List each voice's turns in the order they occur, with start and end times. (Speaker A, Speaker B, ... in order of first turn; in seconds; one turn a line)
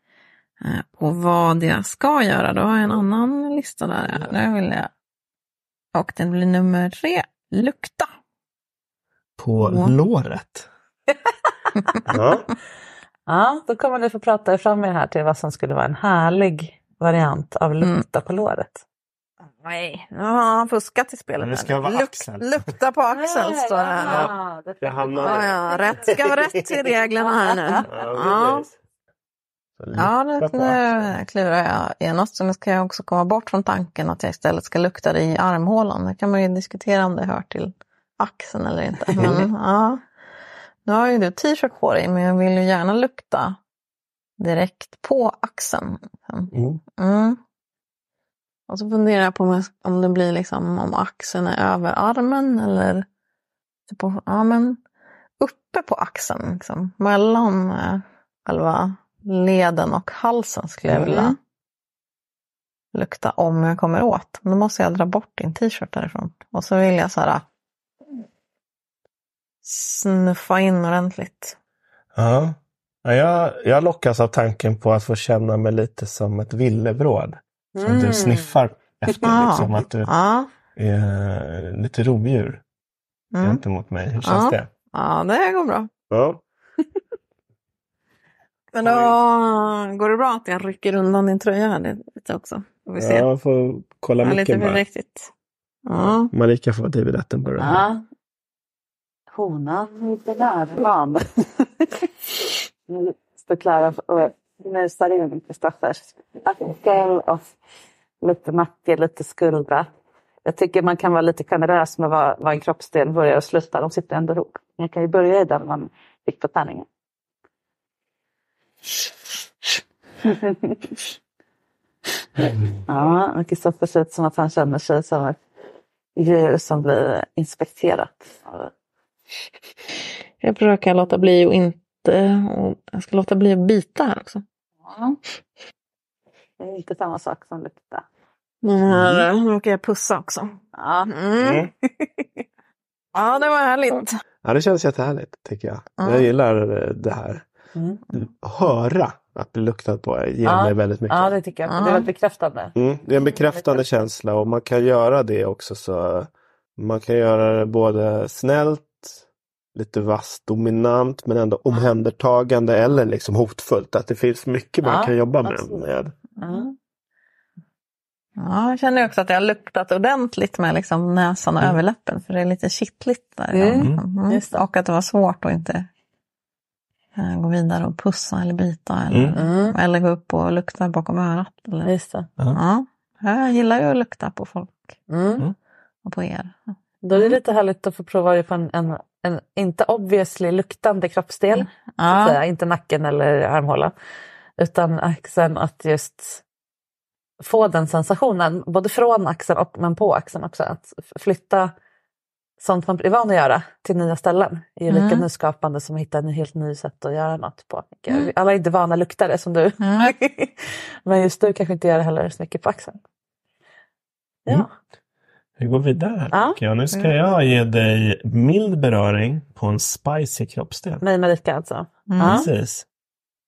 Speaker A: 0.6-4.9
Speaker A: 5.9-8.1
Speaker B: 9.4-10.7
Speaker B: 12.1-12.4
Speaker C: 13.3-18.8
Speaker A: 19.6-24.3
Speaker B: 21.4-22.5
Speaker C: 23.1-26.2
Speaker B: 24.1-26.8
Speaker A: 25.2-28.6
Speaker C: 27.2-27.9
Speaker B: 27.8-28.7
Speaker B: 29.8-31.1
Speaker A: 29.9-40.0
Speaker B: 39.2-39.5
Speaker A: 40.9-43.6
Speaker A: 44.4-47.4
Speaker B: 46.5-46.8
Speaker A: 48.7-53.0
Speaker A: 53.9-54.8
Speaker A: 55.4-61.4
Speaker C: 60.8-61.3
Speaker A: 62.9-67.4
Speaker A: 69.6-71.5
Speaker B: 72.1-80.1
Speaker C: 77.7-78.5
Speaker A: 79.1-80.5
Speaker B: 80.8-82.6
Speaker A: 83.3-83.6
Speaker B: 83.4-84.7
Speaker A: 84.2-85.9
Speaker B: 86.1-86.4
Speaker A: 88.7-93.3
Speaker B: 88.8-89.1
Speaker B: 93.0-94.8
Speaker A: 94.2-95.3
Speaker A: 95.8-96.3
Speaker B: 96.0-97.8
Speaker C: 97.6-98.0
Speaker C: 99.3-102.1
Speaker C: 102.9-107.4
Speaker C: 108.2-109.9
Speaker C: 110.5-116.8
Speaker C: 120.2-121.0
Speaker B: 122.4-122.7
Speaker C: 122.9-125.4
Speaker C: 126.2-128.7
Speaker A: 130.4-134.4
Speaker C: 136.6-138.0
Speaker A: 138.6-141.6
Speaker B: 138.9-139.3
Speaker C: 140.7-141.1
Speaker B: 141.4-141.7
Speaker C: 142.0-142.4
Speaker A: 143.1-144.2
Speaker B: 144.4-147.4
Speaker A: 146.0-146.3
Speaker C: 147.7-148.0
Speaker B: 148.1-151.3
Speaker C: 150.4-152.7
Speaker A: 151.7-152.1
Speaker B: 152.8-159.2
Speaker B: 159.7-166.1
Speaker C: 164.8-165.9
Speaker C: 166.4-166.7
Speaker A: 168.4-175.9
Speaker C: 173.5-174.6
Speaker A: 177.2-181.9
Speaker B: 179.1-179.3
Speaker C: 179.3-179.8
Speaker C: 181.8-182.3
Speaker A: 182.5-184.9
Speaker C: 185.1-185.4
Speaker A: 186.0-186.6
Speaker C: 187.0-193.9
Speaker A: 191.6-192.4
Speaker C: 194.6-196.4
Speaker C: 197.4-201.7
Speaker C: 202.6-213.0
Speaker A: 204.9-205.2
Speaker A: 209.8-210.1
Speaker B: 215.6-221.0
Speaker C: 216.3-216.6
Speaker C: 221.0-222.5
Speaker A: 222.1-222.5
Speaker B: 222.2-222.8